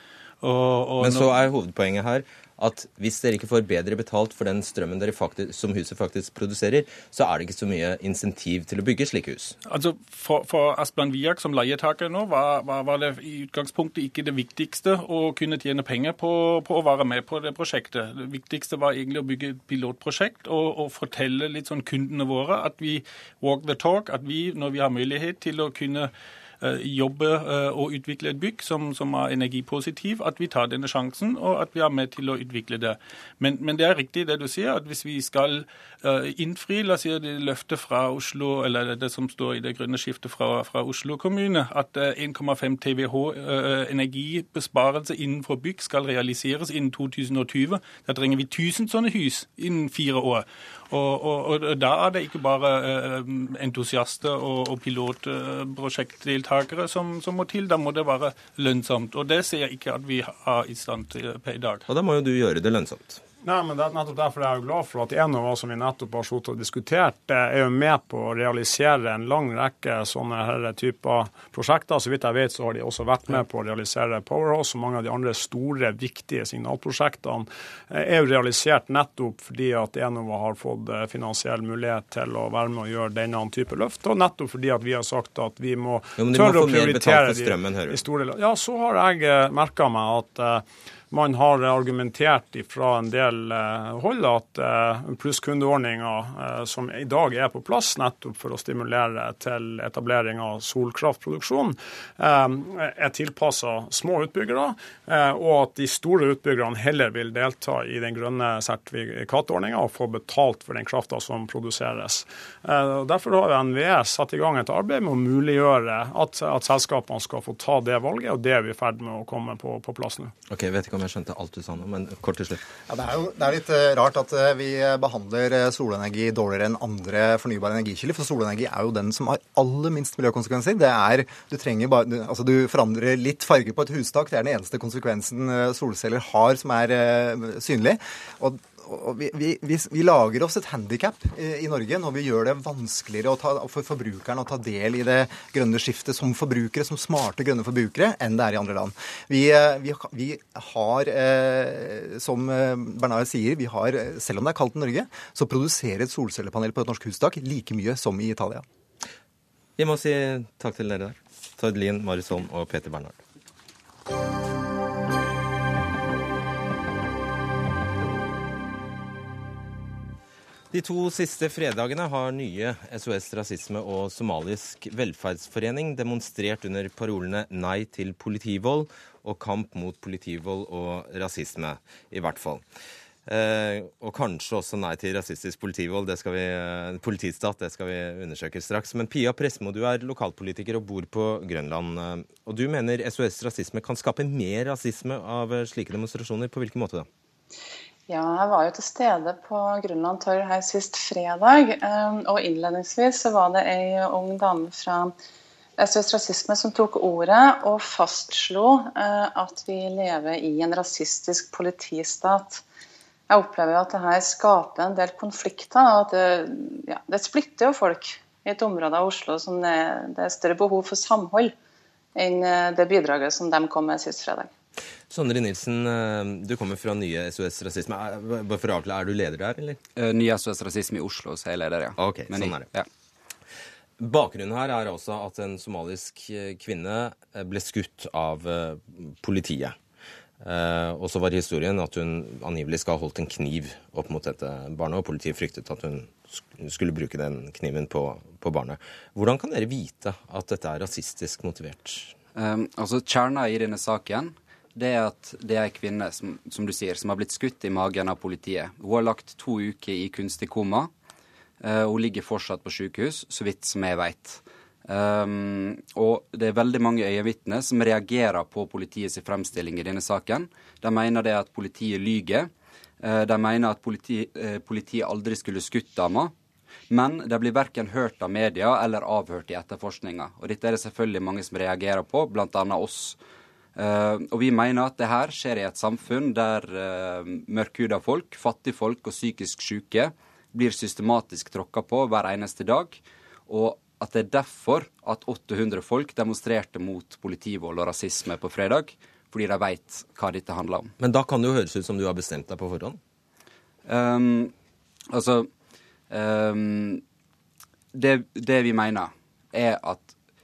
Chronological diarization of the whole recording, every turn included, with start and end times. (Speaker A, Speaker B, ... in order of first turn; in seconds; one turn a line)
Speaker A: 0.4-1.4
Speaker B: 1.0-9.6
Speaker A: 9.6-61.8
Speaker B: 61.9-63.2
Speaker C: 63.4-120.3
Speaker B: 86.2-88.0
Speaker B: 120.5-122.6
Speaker D: 122.9-158.6
Speaker B: 159.8-163.2
Speaker B: 170.7-182.6
Speaker B: 183.3-197.1
Speaker E: 198.1-205.1
Speaker E: 205.8-212.6
Speaker E: 213.3-221.5
Speaker E: 222.2-224.5
Speaker B: 225.1-229.8
Speaker F: 230.0-232.9
Speaker B: 232.0-232.7
Speaker B: 234.0-239.8
Speaker B: 240.4-252.1
Speaker F: 252.3-260.9
Speaker F: 261.6-272.5
Speaker F: 273.0-276.3
Speaker F: 276.9-283.2
Speaker F: 283.8-300.9
Speaker B: 301.0-303.0
Speaker F: 303.9-304.5
Speaker F: 305.1-305.5
Speaker F: 306.1-307.0
Speaker F: 307.9-310.1